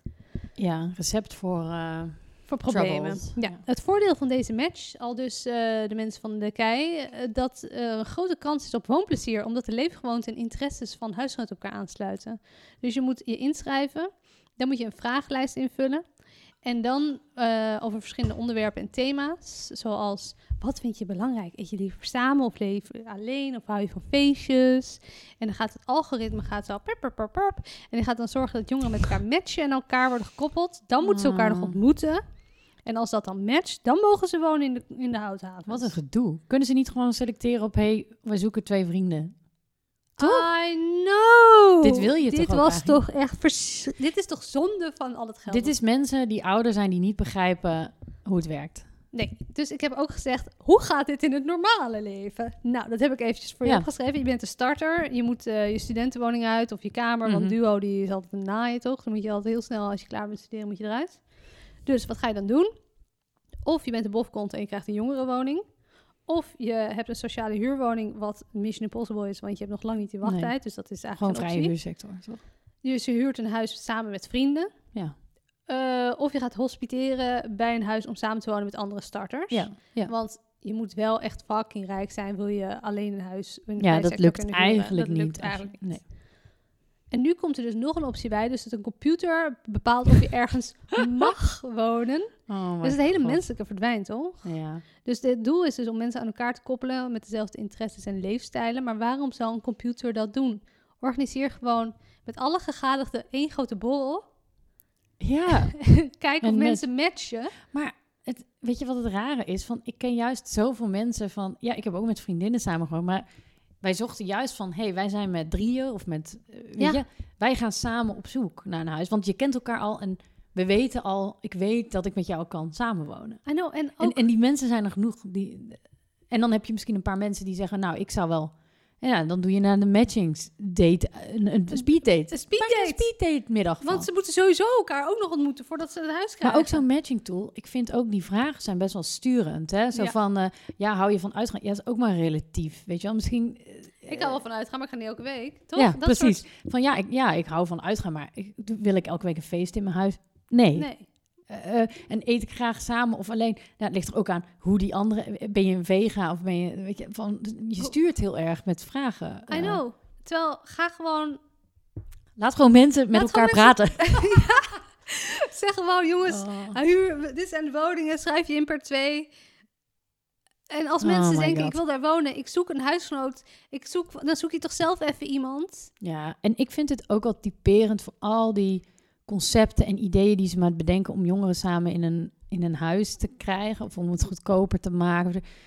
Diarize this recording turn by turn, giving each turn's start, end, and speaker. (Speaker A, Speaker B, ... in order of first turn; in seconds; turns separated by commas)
Speaker A: 0.6-3.6, Speaker B: 2.5-16.0, Speaker B: 16.6-32.2, Speaker A: 31.0-31.8, Speaker B: 32.8-35.9, Speaker A: 35.7-39.4, Speaker B: 40.2-45.7, Speaker A: 40.2-40.5, Speaker A: 41.8-43.0, Speaker A: 45.5-48.9, Speaker B: 49.1-62.7, Speaker A: 57.2-57.6, Speaker B: 63.6-65.6, Speaker B: 66.2-71.7, Speaker A: 70.2-70.6, Speaker A: 71.1-72.4, Speaker B: 72.8-74.7, Speaker B: 75.7-86.1, Speaker A: 79.5-80.1, Speaker A: 83.8-86.0, Speaker B: 87.1-104.3, Speaker A: 92.5-93.5, Speaker A: 94.4-94.8, Speaker A: 105.2-105.9, Speaker B: 105.7-107.5, Speaker A: 106.4-106.9, Speaker A: 107.6-113.2, Speaker A: 113.8-123.4, Speaker B: 123.5-124.3, Speaker A: 124.0-134.1, Speaker B: 131.7-133.1, Speaker B: 133.8-136.8, Speaker A: 136.4-144.4, Speaker B: 144.1-146.4, Speaker A: 145.8-150.9, Speaker B: 150.7-151.1, Speaker A: 151.5-159.8, Speaker B: 159.5-161.4, Speaker A: 162.4-164.6, Speaker B: 163.1-169.3, Speaker A: 166.2-166.8, Speaker B: 170.7-175.9, Speaker A: 171.0-171.8, Speaker A: 176.0-185.5